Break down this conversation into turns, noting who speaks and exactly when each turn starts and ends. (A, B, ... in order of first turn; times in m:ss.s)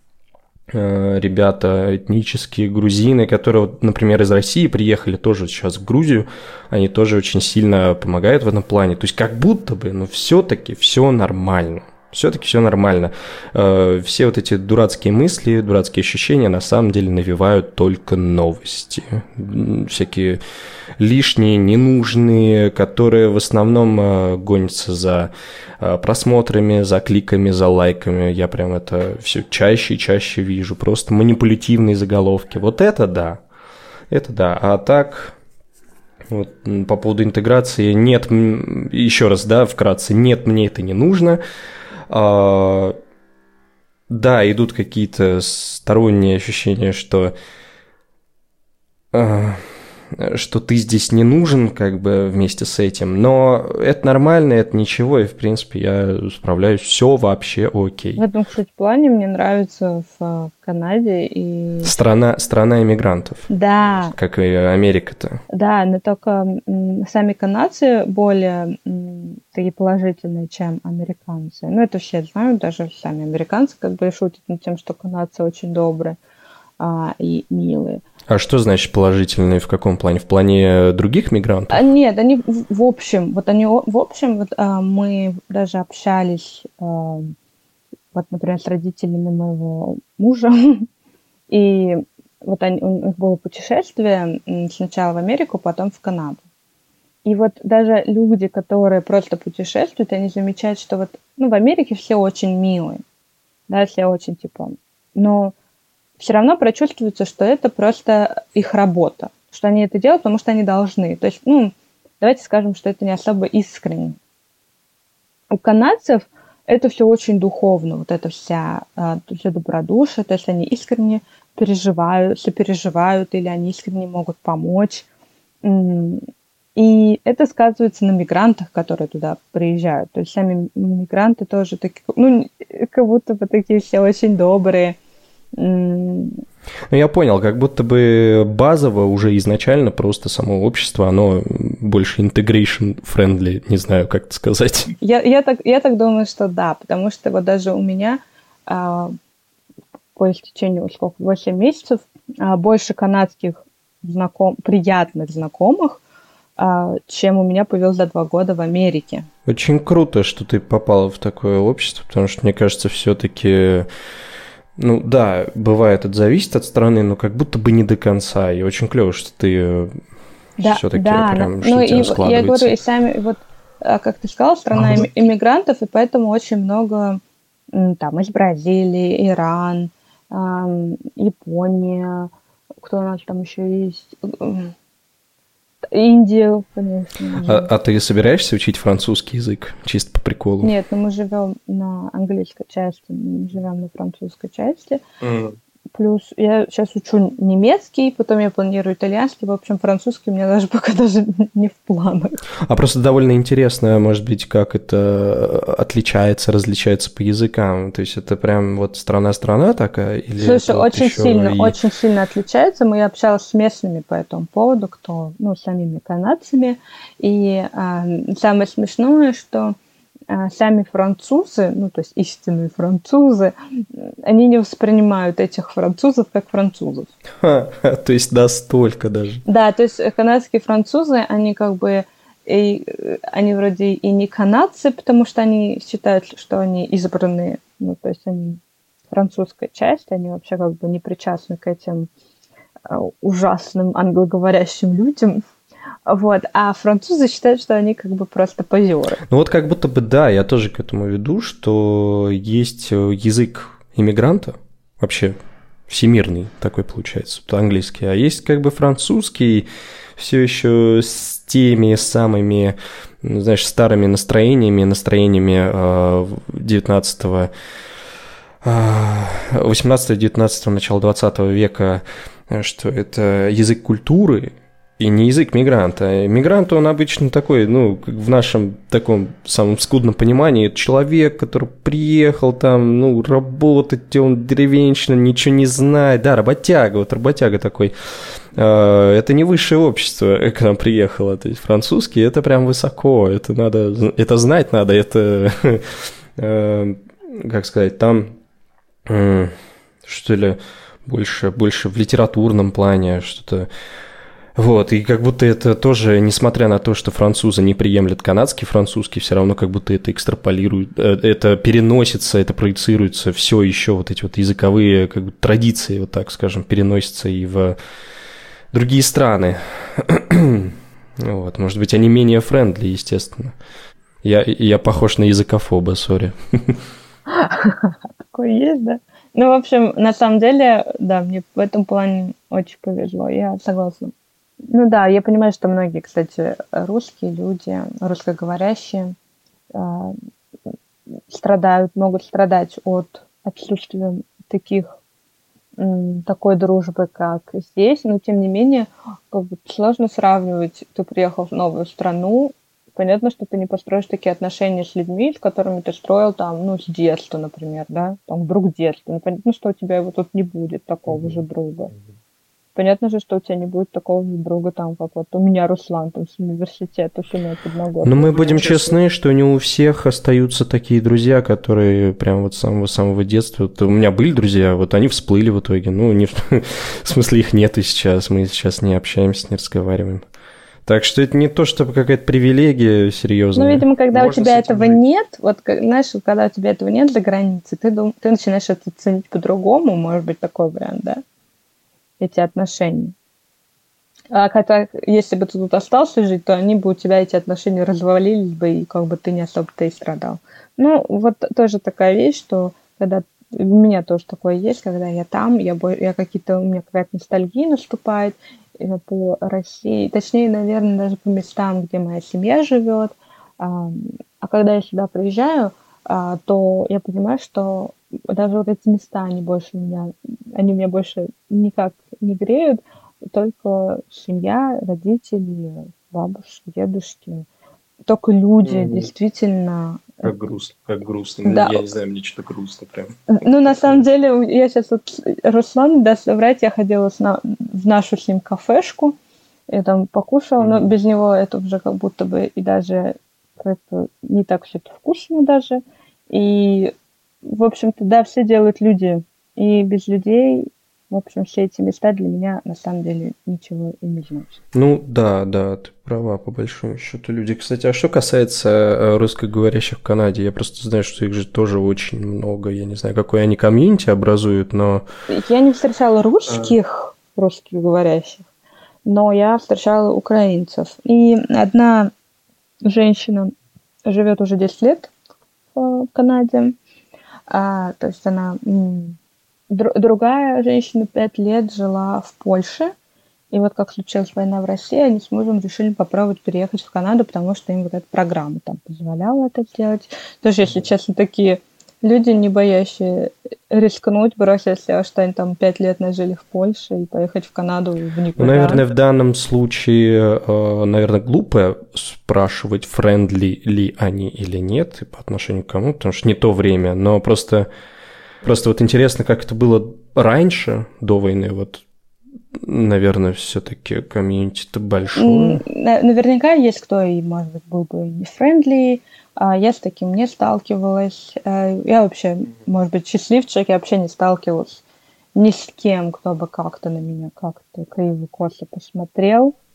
0:00.7-0:20.4 A
0:21.0-0:33.4 A
0:34.1-0:35.4 A
0:36.3-0:41.4 A
0:42.1-0:43.0 A
0:44.1-0:47.3 A
0:49.1-0:58.2 A
0:58.2-1:01.9 B
1:01.8-1:03.5 A
1:03.5-1:04.1 B
1:04.1-1:05.4 A
1:05.5-1:16.2 B
1:16.8-1:18.0 B
1:18.3-1:21.8 A
1:21.7-1:27.3 B
1:28.1-1:30.9 B
1:31.5-1:36.4 B
1:37.2-1:43.0 B
1:43.7-1:45.5 B
1:46.2-1:54.2 B
1:55.5-2:05.1 B
2:05.6-2:06.2 B
2:06.8-2:15.0 B
2:15.6-2:16.4 B
2:16.9-2:24.9 A
2:25.0-2:29.2 B
2:30.2-2:36.0 B
2:36.6-2:39.3 B
2:39.5-2:43.9 A
2:44.8-2:50.0 A
2:50.6-2:57.2 B
2:50.6-2:52.8 A
2:54.8-2:55.1 A
2:57.7-3:02.3 B
3:02.8-3:04.7 B
3:05.9-3:07.7 B
3:07.4-3:10.7 A
3:10.6-3:15.0 B
3:15.2-3:15.6 A
3:15.9-3:22.4 B
3:22.7-3:31.8 A
3:30.4-3:39.8 B
3:40.3-3:47.1 B
3:47.4-3:49.4 A
3:49.5-4:02.1 B
4:02.9-4:05.4 B
4:06.1-4:09.2 B
4:09.3-4:15.4 A
4:15.9-4:19.7 A
4:20.2-4:27.5 A
4:28.6-4:58.3 A
4:59.1-5:03.7 A
5:04.6-5:17.8 A
5:18.7-5:23.6 A
5:24.2-5:26.8 A
5:27.3-5:34.1 B
5:34.7-5:39.2 B
5:39.7-5:40.2 B
5:41.3-5:45.0 B
5:45.8-6:01.9 B
6:02.8-6:09.0 B
6:08.0-6:20.2 A
6:20.9-6:25.0 A
6:23.6-6:31.2 B
6:32.2-6:33.2 B
6:34.3-7:07.5 B
7:08.1-7:10.3 B
7:08.6-7:09.1 A
7:10.2-7:13.2 A
7:11.4-7:11.8 B
7:13.3-7:19.2 B
7:19.7-7:26.9 B
7:20.6-7:20.9 A
7:27.4-7:34.6 B
7:34.7-7:45.0 A
7:45.3-7:48.5 B
7:46.5-7:46.8 A
7:49.0-7:52.1 B
7:52.8-7:53.5 B
7:54.1-7:55.1 B
7:55.8-7:56.8 B
7:57.5-7:59.2 B
7:59.7-8:02.9 B
8:03.5-8:18.8 B
8:18.4-8:27.7 A
8:28.4-8:31.8 A
8:32.6-8:35.6 A
8:35.2-8:44.8 B
8:45.4-8:49.6 B